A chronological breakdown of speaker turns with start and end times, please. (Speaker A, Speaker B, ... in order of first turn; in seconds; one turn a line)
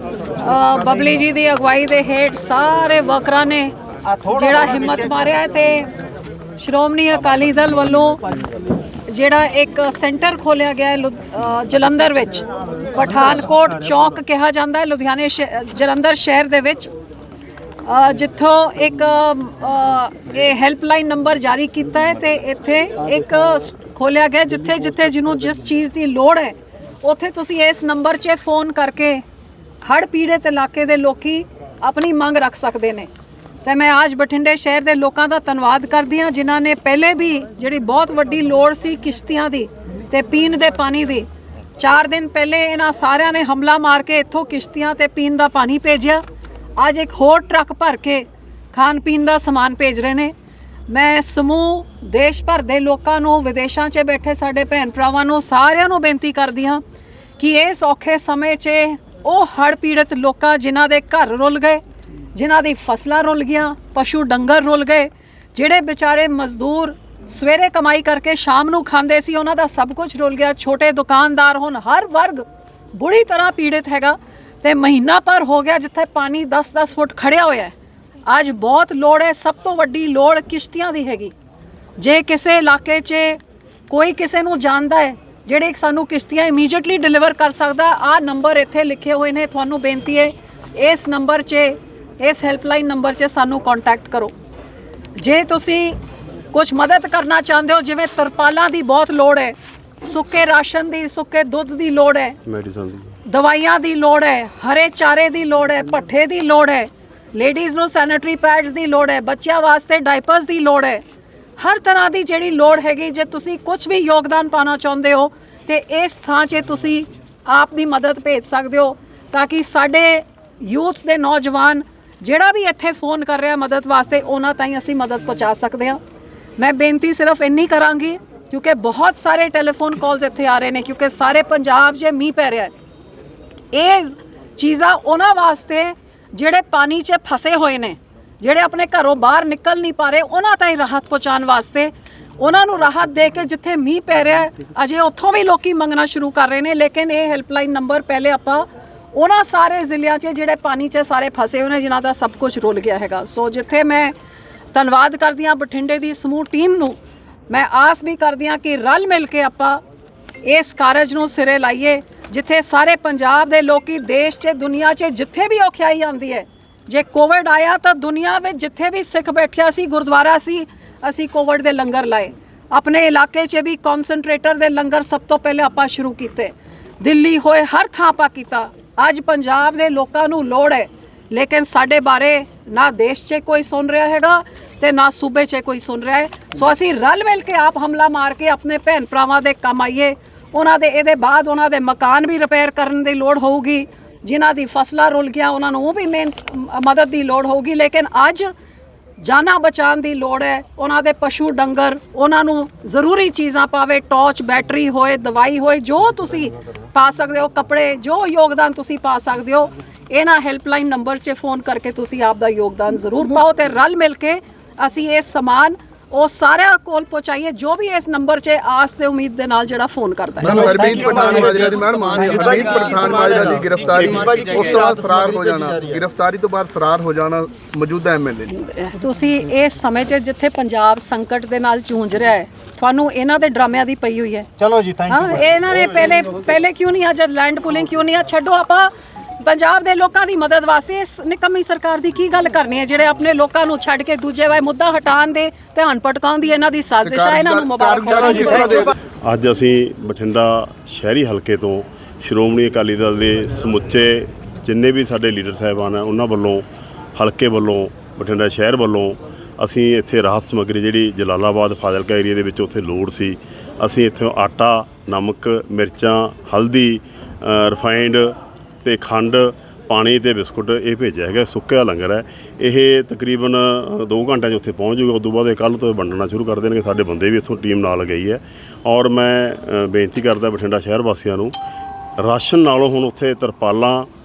Speaker A: 0.4-3.7
Speaker B: 4.0-4.7
Speaker A: 4.3-5.9
Speaker A: 6.6-8.2
Speaker A: 9.1-16.9
Speaker A: 17.8-29.2
Speaker A: 29.8-33.1
Speaker A: 33.6-41.2
Speaker A: 41.8-46.2
Speaker A: 46.8-50.3
Speaker A: 50.9-56.8
Speaker A: 57.4-61.8
Speaker A: 62.3-72.4
Speaker A: 72.9-77.7
Speaker A: 78.3-81.3
Speaker A: 82.0-83.4
Speaker A: 83.9-94.3
Speaker A: 95.2-96.0
Speaker A: 96.5-102.4
Speaker C: 102.5-103.2
Speaker A: 103.2-111.0
Speaker A: 111.6-126.0
Speaker A: 126.6-132.7
Speaker A: 133.7-154.1
Speaker A: 154.7-157.0
Speaker A: 157.5-159.8
Speaker A: 160.4-198.5
Speaker A: 199.2-220.7
Speaker D: 220.4-228.5
Speaker B: 220.4-226.0
Speaker A: 228.5-234.5
Speaker B: 234.6-235.3
Speaker A: 235.1-248.9
Speaker D: 247.0-248.9
Speaker C: 249.2-256.6
Speaker C: 257.1-281.5
Speaker C: 282.2-284.1